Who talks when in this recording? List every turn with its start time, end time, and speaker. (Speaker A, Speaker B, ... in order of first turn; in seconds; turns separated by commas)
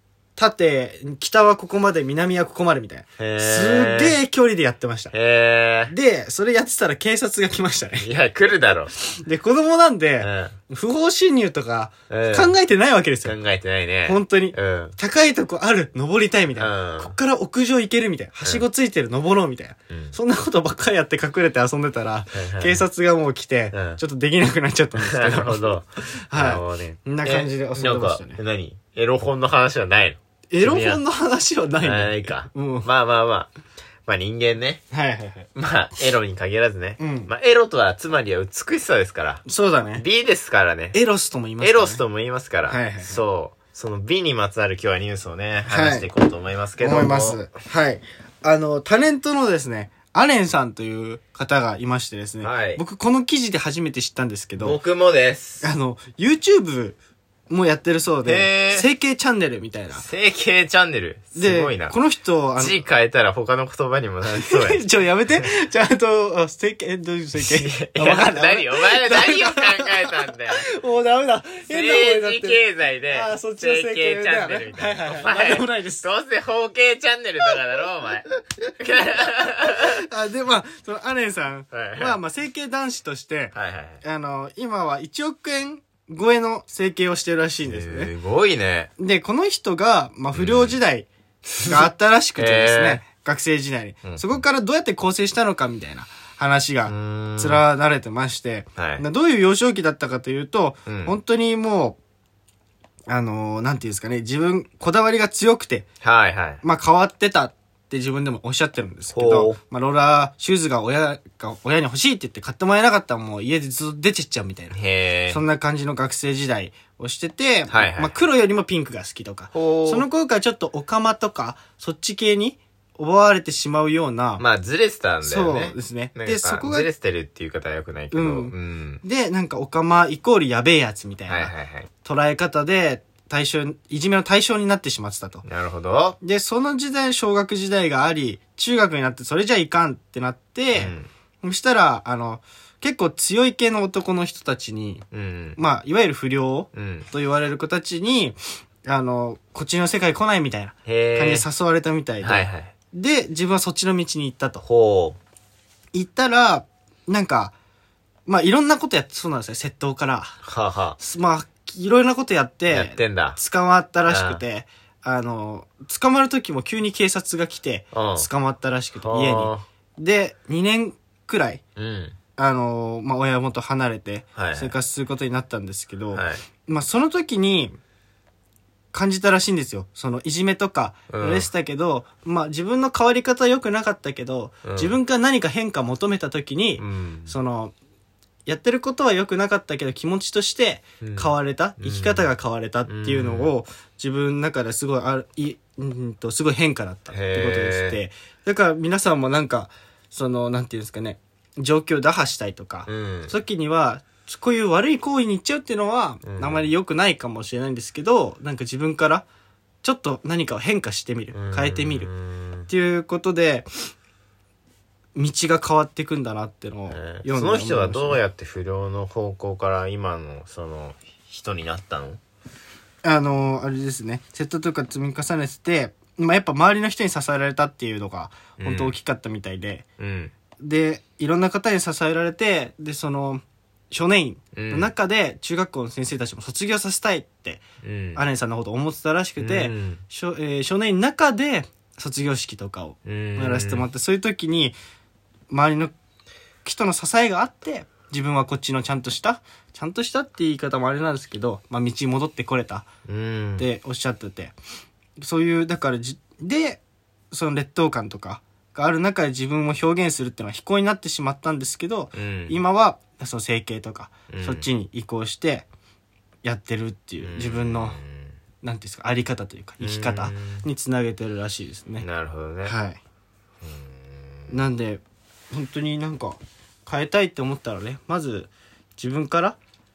Speaker A: 0.3-5.1, Speaker B: 3.2-4.2, Speaker B: 5.1-5.9, Speaker A: 5.9-8.1, Speaker B: 8.0-8.9, Speaker A: 9.1-13.3, Speaker B: 10.2-10.5, Speaker B: 12.1-12.5, Speaker B: 13.2-14.9, Speaker A: 14.0-25.7, Speaker B: 16.6-17.1, Speaker B: 19.9-20.1, Speaker B: 22.3-22.8, Speaker B: 23.7-24.0, Speaker B: 25.0-31.0, Speaker A: 26.3-28.4, Speaker A: 30.5-32.9, Speaker B: 31.8-33.5, Speaker B: 34.0-34.8, Speaker A: 34.9-35.5, Speaker B: 35.5-39.4, Speaker A: 37.0-37.3, Speaker A: 39.5-40.0, Speaker B: 40.0-41.0, Speaker A: 40.9-42.0, Speaker B: 41.6-47.5, Speaker A: 42.7-43.1, Speaker A: 45.7-46.1, Speaker A: 46.8-54.8, Speaker B: 52.4-52.8, Speaker B: 54.6-55.6, Speaker A: 55.6-57.0, Speaker A: 57.5-60.0, Speaker B: 58.2-58.9, Speaker B: 60.0-61.9, Speaker A: 61.4-62.8, Speaker B: 62.6-64.8, Speaker A: 64.4-76.0, Speaker B: 67.4-70.7, Speaker B: 71.7-78.2, Speaker B: 78.8-80.0, Speaker A: 79.7-88.1, Speaker B: 81.7-82.2, Speaker B: 83.5-84.0, Speaker B: 87.6-88.9, Speaker A: 89.0-91.1, Speaker B: 90.3-90.8, Speaker B: 91.6-93.0, Speaker A: 91.6-102.0, Speaker B: 94.0-94.4, Speaker B: 96.8-97.6, Speaker B: 98.8-99.0, Speaker B: 100.9-101.2, Speaker A: 103.1-105.8, Speaker B: 106.0-106.6, Speaker A: 106.6-114.8, Speaker B: 109.1-109.6, Speaker B: 114.7-115.4, Speaker A: 115.3-124.4, Speaker B: 117.7-118.1, Speaker B: 119.5-120.1, Speaker B: 124.4-129.0, Speaker A: 125.2-126.9, Speaker A: 128.1-131.5, Speaker B: 131.3-131.9, Speaker A: 132.0-135.4, Speaker B: 135.4-136.2, Speaker A: 136.2-154.6, Speaker B: 140.7-141.1, Speaker B: 145.1-145.6, Speaker B: 146.7-147.1, Speaker B: 150.8-151.4, Speaker B: 152.2-152.7, Speaker B: 154.6-155.2, Speaker A: 155.9-157.5, Speaker A: 158.3-160.4, Speaker B: 160.4-161.0, Speaker A: 161.0-171.6, Speaker B: 162.7-163.4, Speaker B: 164.1-164.4, Speaker B: 167.9-168.3, Speaker B: 169.0-169.6, Speaker B: 171.8-172.2, Speaker A: 172.4-177.7, Speaker B: 174.3-174.7, Speaker B: 176.1-176.4, Speaker A: 178.9-187.7, Speaker B: 181.1-181.5, Speaker B: 184.6-185.0, Speaker B: 186.8-187.3, Speaker A: 188.4-209.2, Speaker B: 191.0-192.3, Speaker B: 192.8-193.5, Speaker B: 197.1-198.0, Speaker B: 202.8-203.3, Speaker B: 206.2-206.7, Speaker A: 209.8-212.1, Speaker B: 211.3-212.7, Speaker A: 212.7-213.7, Speaker A: 215.1-218.2, Speaker B: 216.9-222.2, Speaker A: 223.0-229.8, Speaker B: 228.6-228.9, Speaker B: 230.0-230.3, Speaker A: 230.6-237.6, Speaker B: 234.5-234.9, Speaker B: 237.8-238.2, Speaker A: 238.2-244.8, Speaker B: 239.4-240.0, Speaker B: 243.1-243.8, Speaker A: 245.5-245.9, Speaker A: 246.6-252.9, Speaker B: 253.1-253.7, Speaker A: 253.6-254.6, Speaker A: 255.2-265.7, Speaker B: 262.1-262.6, Speaker B: 264.3-264.6, Speaker A: 266.4-268.0, Speaker B: 267.2-268.3, Speaker A: 268.6-272.1, Speaker B: 269.8-270.6, Speaker B: 272.0-272.7, Speaker A: 272.6-273.0, Speaker B: 273.6-274.6, Speaker A: 274.5-275.0, Speaker A: 275.5-279.6